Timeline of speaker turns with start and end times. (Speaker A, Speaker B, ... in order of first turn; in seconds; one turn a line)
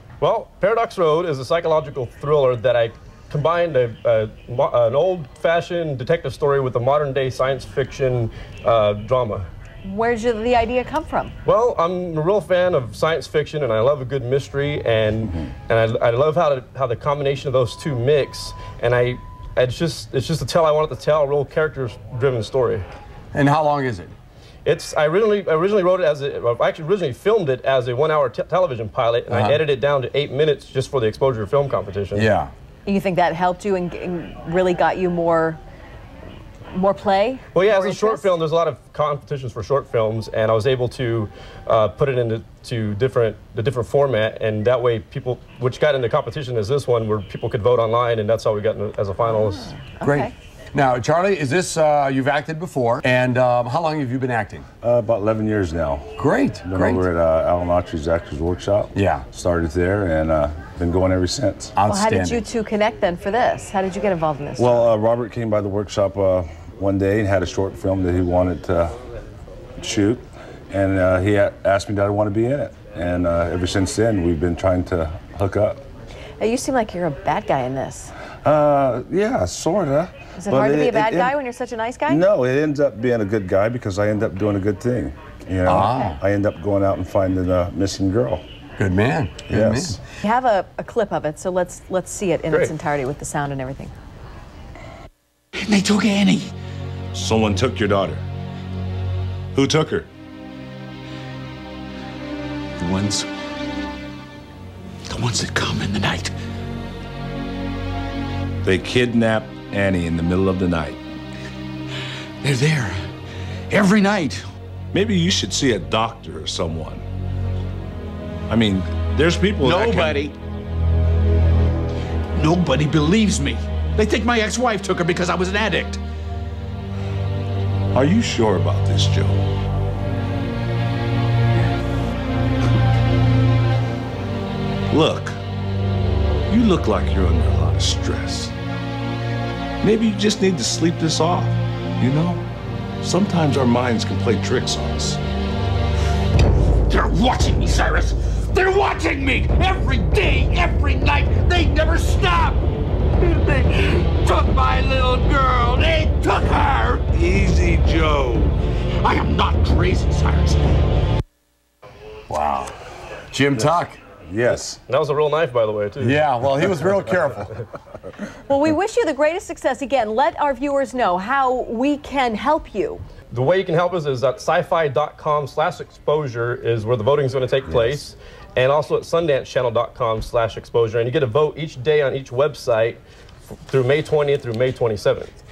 Speaker A: 0.2-9.5
Speaker B: 9.8-11.3
Speaker A: 11.4-22.9
Speaker C: 23.3-24.1
Speaker A: 24.6-32.3
Speaker C: 29.3-29.6
Speaker C: 32.1-32.5
Speaker B: 32.9-35.6
Speaker B: 36.7-38.3
Speaker A: 37.5-49.8
Speaker B: 49.8-50.3
Speaker C: 50.0-54.7
Speaker D: 54.8-61.7
Speaker C: 56.2-57.1
Speaker C: 59.0-59.2
Speaker C: 61.8-62.4
Speaker B: 61.9-64.9
Speaker D: 64.6-69.0
Speaker D: 69.8-75.8
Speaker B: 76.4-78.1
Speaker D: 78.4-81.4
Speaker B: 80.4-82.2
Speaker D: 82.1-88.4
Speaker C: 85.7-86.2
Speaker C: 88.8-90.0
Speaker D: 89.5-90.0
Speaker B: 90.2-93.9
Speaker E: 95.5-96.5
Speaker F: 97.1-98.2
Speaker F: 99.5-100.1
Speaker E: 102.8-103.3
Speaker E: 105.1-106.3
Speaker F: 108.6-111.0
Speaker E: 112.4-113.0
Speaker E: 113.7-114.5
Speaker F: 114.9-117.0
Speaker F: 118.5-120.2
Speaker E: 119.6-120.4
Speaker E: 122.3-126.0
Speaker F: 127.9-129.4
Speaker F: 134.9-135.3
Speaker F: 136.5-138.5
Speaker F: 139.8-142.4
Speaker F: 143.0-145.2
Speaker E: 146.9-152.7
Speaker E: 153.2-157.1
Speaker F: 157.2-158.6
Speaker E: 159.0-160.6
Speaker C: 162.3-162.7
Speaker C: 163.3-164.0
Speaker D: 163.5-164.8
Speaker A: 164.5-166.2
Speaker C: 166.0-167.5
Speaker B: 168.5-173.0
Speaker A: 173.3-183.0
Speaker D: 177.7-178.0
Speaker A: 183.7-185.4